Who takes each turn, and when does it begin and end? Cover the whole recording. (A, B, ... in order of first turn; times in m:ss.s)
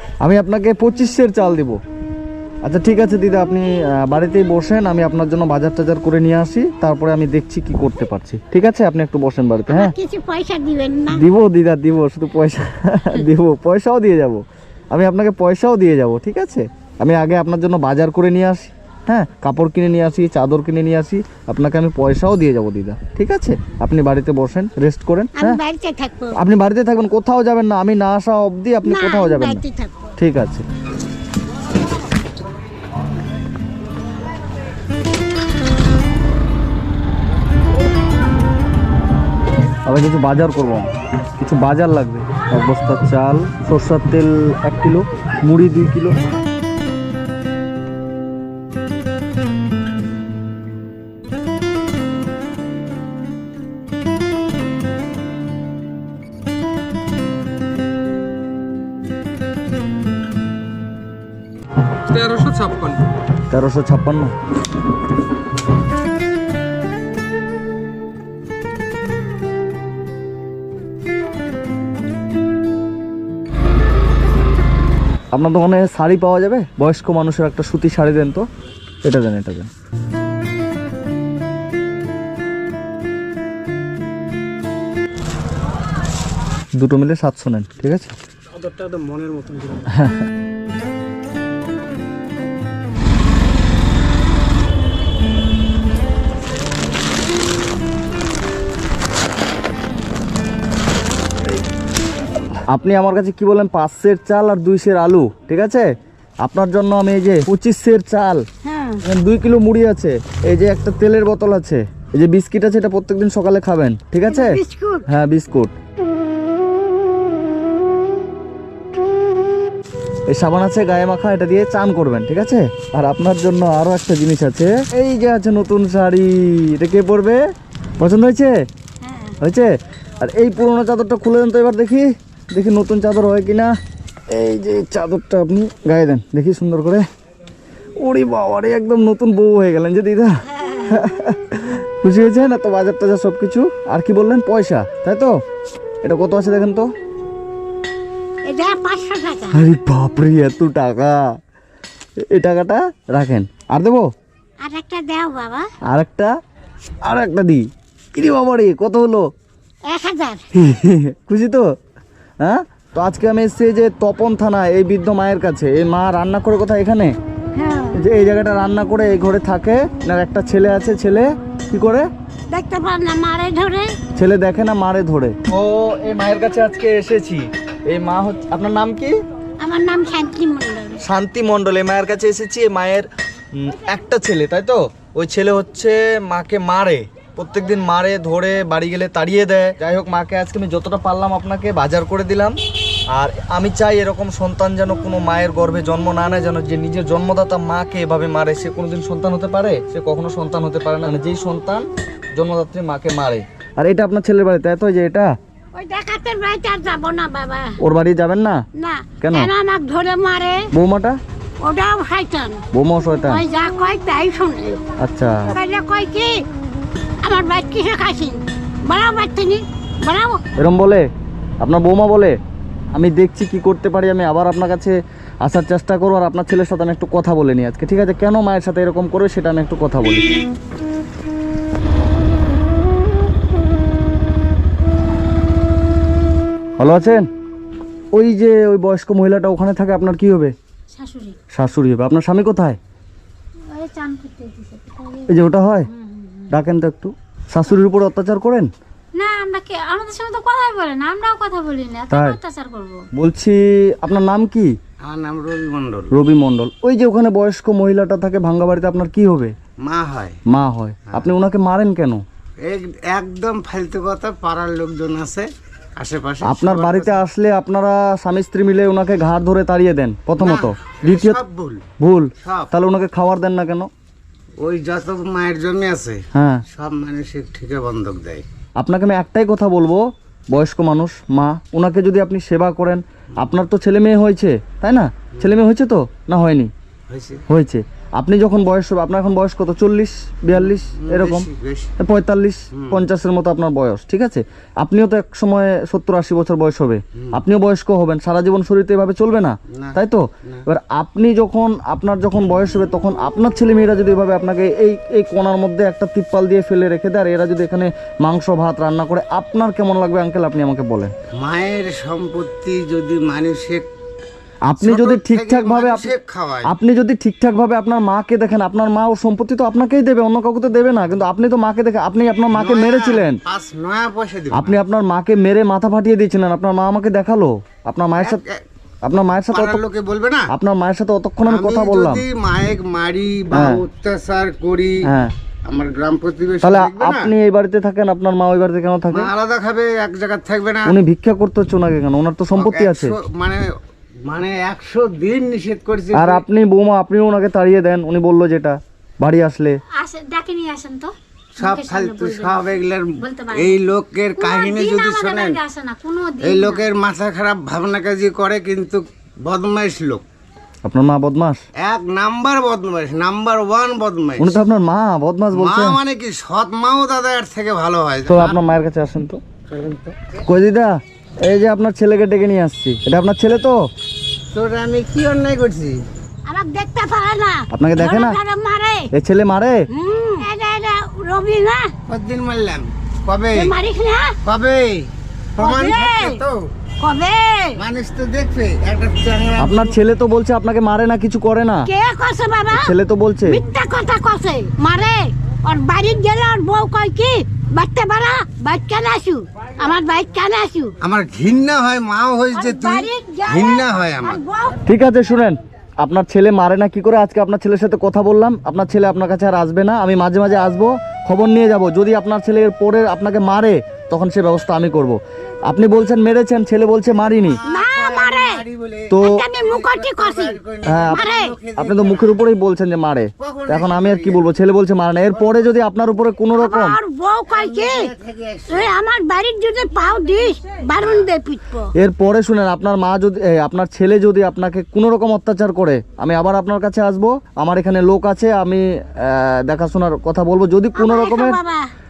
0:00.2-0:01.8 A
0:02.6-0:10.0 A
0:09.7-0:11.3 B
0:11.1-0:25.6 A
0:25.4-0:26.4 B
0:26.4-0:29.6 A
0:28.8-0:30.1 B
0:30.2-0:30.6 A
0:39.9-0:46.3 A
1:02.1-1:03.0 C
1:03.5-1:04.3 A
1:15.3-1:18.4 A
1:19.0-1:19.7 A
1:26.8-1:28.1 A
1:28.6-1:29.8 C
1:29.9-1:30.3 A
1:42.7-1:45.9 A
1:46.4-1:48.4 A
1:48.6-1:49.0 B
1:49.0-1:55.7 A
1:54.3-1:55.1 B
2:00.3-2:07.4 A
2:08.0-2:08.6 A
2:09.0-2:09.4 B
2:09.4-2:13.7 A
2:14.3-2:17.0 A
2:18.0-2:20.3 A
2:20.6-2:21.0 B
2:20.9-2:25.4 A
2:26.0-2:26.9 A
2:28.4-2:29.7 B
2:29.5-2:31.2 A
2:32.3-2:34.1 A
2:34.6-2:35.7 B
2:35.9-2:36.3 A
2:37.0-2:39.2 A
2:39.9-2:40.4 B
2:40.6-2:41.7 A
2:42.4-2:47.1 A
2:47.6-2:48.0 B
2:48.0-2:52.1 A
2:52.5-2:54.0 B
2:54.2-2:59.2 A
2:59.6-3:01.0 B
3:01.0-3:12.6 A
3:13.1-3:25.3 A
3:25.7-3:27.8 B
3:27.8-3:28.6 A
3:28.8-3:30.7 B
3:29.2-3:29.5 A
3:30.7-3:31.2 A
3:31.6-3:32.6 B
3:32.7-3:33.4 A
3:33.3-3:34.9 B
3:35.0-3:35.6 A
3:35.5-3:36.3 B
3:37.2-3:40.4 B
3:40.6-3:41.0 A
3:41.6-3:42.4 A
3:42.9-3:50.3 A
3:56.8-3:57.3 A
3:58.1-4:00.5 A
4:00.9-4:01.4 D
4:01.5-4:02.8 A
4:03.7-4:05.5 D
4:05.3-4:05.9 A
4:06.0-4:06.5 D
4:06.5-4:08.7 A
4:09.2-4:13.1 D
4:12.1-4:12.4 A
4:13.2-4:14.7 A
4:15.0-4:16.2 E
4:16.1-4:19.5 A
4:19.8-4:20.4 E
4:20.5-4:22.2 A
4:22.6-4:27.2 E
4:26.4-4:31.4 A
4:30.4-4:31.8 E
4:32.0-4:33.9 A
4:32.4-4:32.7 E
4:34.6-4:38.4 E
4:36.3-4:36.6 A
4:38.8-4:46.7 A
4:47.1-4:47.4 E
4:47.5-5:11.1 A
4:50.5-4:52.0 E
4:52.7-4:53.1 E
4:59.7-5:00.6 E
5:11.4-5:13.9 E
5:14.7-5:16.1 A
5:14.8-5:16.7 E
5:16.6-5:23.4 A
5:22.5-5:24.8 E
5:24.5-5:28.4 A
5:28.2-5:28.6 E
5:29.0-5:29.8 A
5:29.5-5:30.5 E
5:30.5-5:32.2 A
5:31.5-5:35.1 E
5:33.5-5:33.8 A
5:35.0-5:35.3 A
5:35.6-5:37.3 E
5:36.6-5:39.3 A
5:39.1-5:41.0 E
5:40.9-5:43.2 A
5:42.6-5:43.7 E
5:44.3-5:46.4 E
5:46.1-5:49.8 A
5:50.0-5:53.8 D
5:51.6-5:55.6 E
5:54.4-5:56.8 D
5:56.4-6:00.2 E
6:00.8-6:01.6 A
6:01.8-6:04.6 E
6:04.4-6:06.0 A
6:05.5-6:08.6 E
6:08.3-6:09.4 A
6:09.7-6:10.3 E
6:10.4-6:13.8 A
6:14.5-6:16.0 E
6:16.5-6:19.1 B
6:17.7-6:18.4 A
6:19.1-6:19.8 A
6:19.9-6:21.9 B
6:22.1-6:23.7 E
6:23.5-6:24.4 B
6:24.4-6:26.7 E
6:25.6-6:26.4 B
6:27.0-6:27.8 B
6:27.8-6:30.0 E
6:29.6-6:31.9 A
6:31.9-6:33.0 B
6:32.7-6:33.6 A
6:33.5-6:40.9 B
6:41.0-6:44.4 E
6:42.5-6:44.8 B
6:44.9-6:57.6 A
6:57.5-7:02.4 E
6:57.7-6:58.6 B
6:59.1-6:59.4 A
6:59.2-7:00.6 B
7:00.9-7:07.0 A
7:01.1-7:01.6 B
7:03.4-7:04.5 E
7:05.4-7:05.6 E
7:06.6-7:08.1 B
7:07.5-7:08.9 E
7:08.7-7:11.9 B
7:11.0-7:11.3 E
7:12.0-7:21.6 A
7:21.0-7:21.9 B